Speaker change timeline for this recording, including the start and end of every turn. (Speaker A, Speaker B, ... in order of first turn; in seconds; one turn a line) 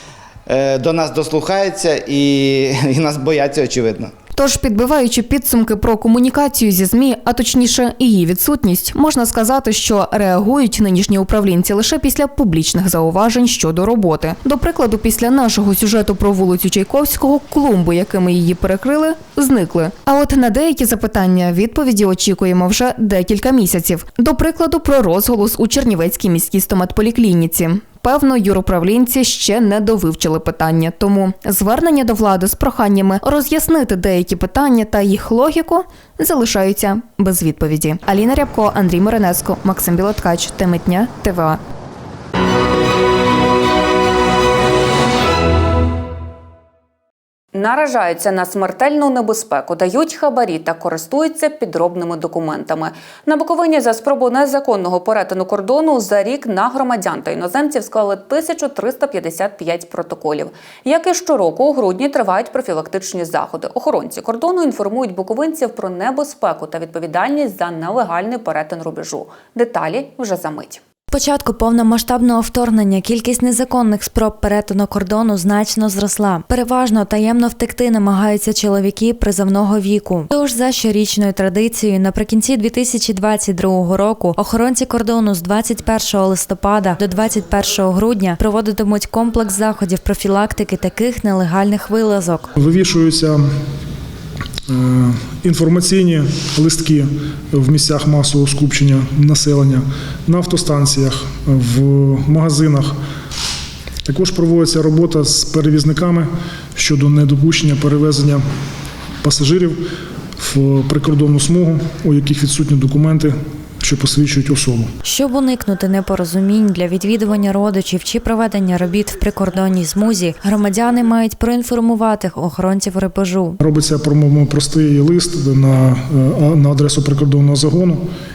Speaker A: 0.5-4.1
Speaker B: 4.3-41.6
Speaker C: 47.5-70.8
Speaker D: 71.1-92.5
Speaker E: 92.6-93.4
Speaker E: 94.7-102.9
Speaker E: 104.0-108.4
Speaker E: 109.2-109.8
Speaker E: 110.4-114.9
Speaker D: 115.0-123.6
Speaker E: 123.6-128.0